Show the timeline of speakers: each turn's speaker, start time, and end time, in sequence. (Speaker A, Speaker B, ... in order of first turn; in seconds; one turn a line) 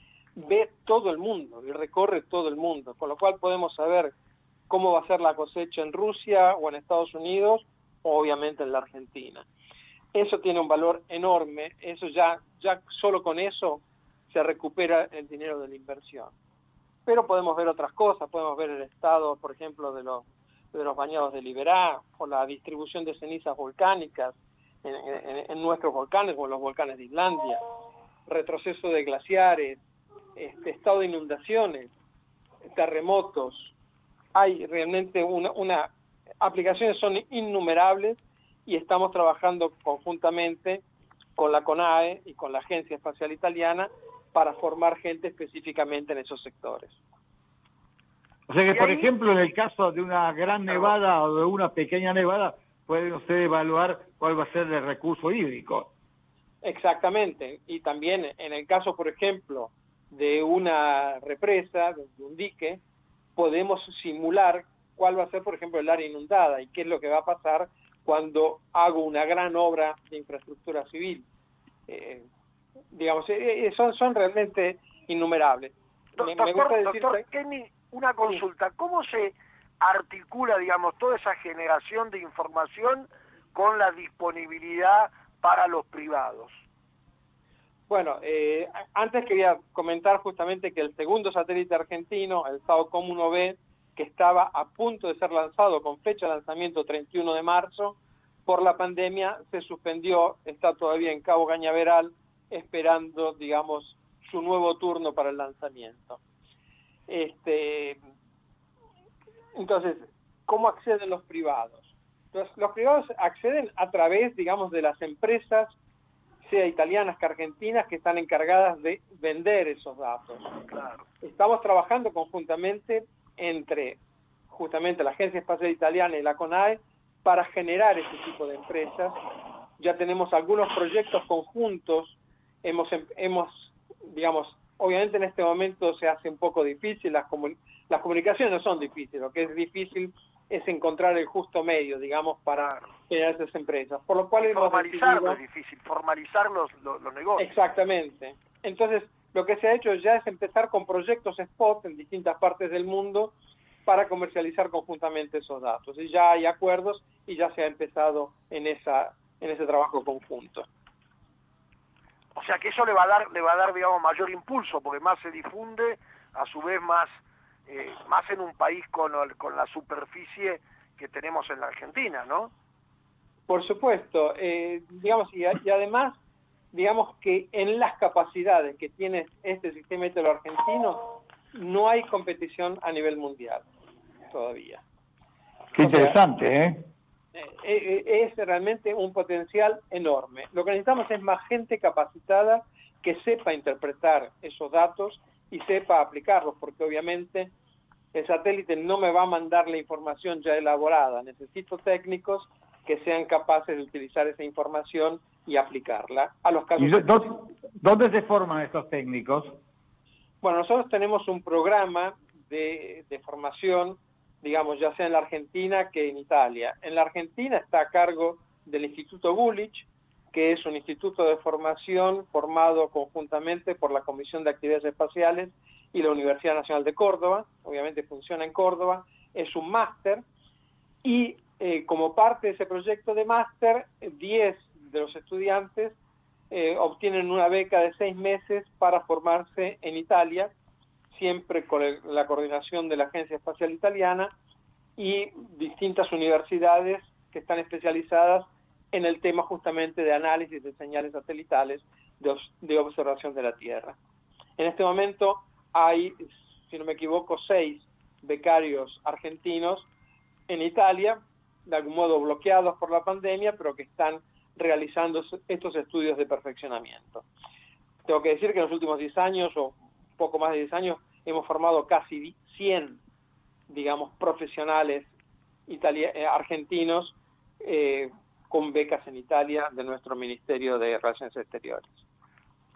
Speaker A: 0.4-4.1
Speaker A: 4.7-9.5
Speaker A: 10.1-16.3
Speaker A: 17.1-27.6
Speaker A: 28.3-29.8
Speaker A: 30.4-31.9
Speaker A: 32.7-33.7
Speaker A: 34.3-40.8
Speaker A: 41.4-47.0
Speaker B: 48.5-55.9
Speaker C: 48.7-49.1
Speaker A: 56.6-62.8
Speaker A: 63.4-71.3
Speaker A: 71.9-72.3
Speaker A: 72.9-77.2
Speaker C: 76.2-86.6
Speaker A: 87.9-106.2
Speaker A: 107.1-108.0
Speaker A: 109.6-115.7
Speaker A: 116.5-120.6
Speaker C: 120.7-121.0
Speaker A: 121.2-124.0
Speaker A: 124.5-129.2
Speaker A: 129.8-145.4
Speaker C: 144.4-147.5
Speaker A: 147.4-153.3
Speaker A: 153.9-160.7
Speaker C: 162.4-167.2
Speaker C: 167.7-172.5
Speaker A: 173.5-176.2
Speaker A: 176.7-183.7
Speaker A: 184.3-184.8
Speaker B: 185.8-186.9
Speaker A: 185.9-186.1
Speaker A: 187.3-197.5
Speaker A: 198.1-207.3
Speaker B: 206.8-209.6
Speaker A: 210.4-230.2
Speaker A: 231.0-236.0
Speaker A: 236.5-240.5
Speaker A: 241.1-244.3
Speaker A: 245.0-254.0
Speaker A: 254.6-259.9
Speaker A: 260.5-267.2
Speaker A: 268.1-273.0
Speaker A: 273.7-275.1
Speaker A: 275.7-281.9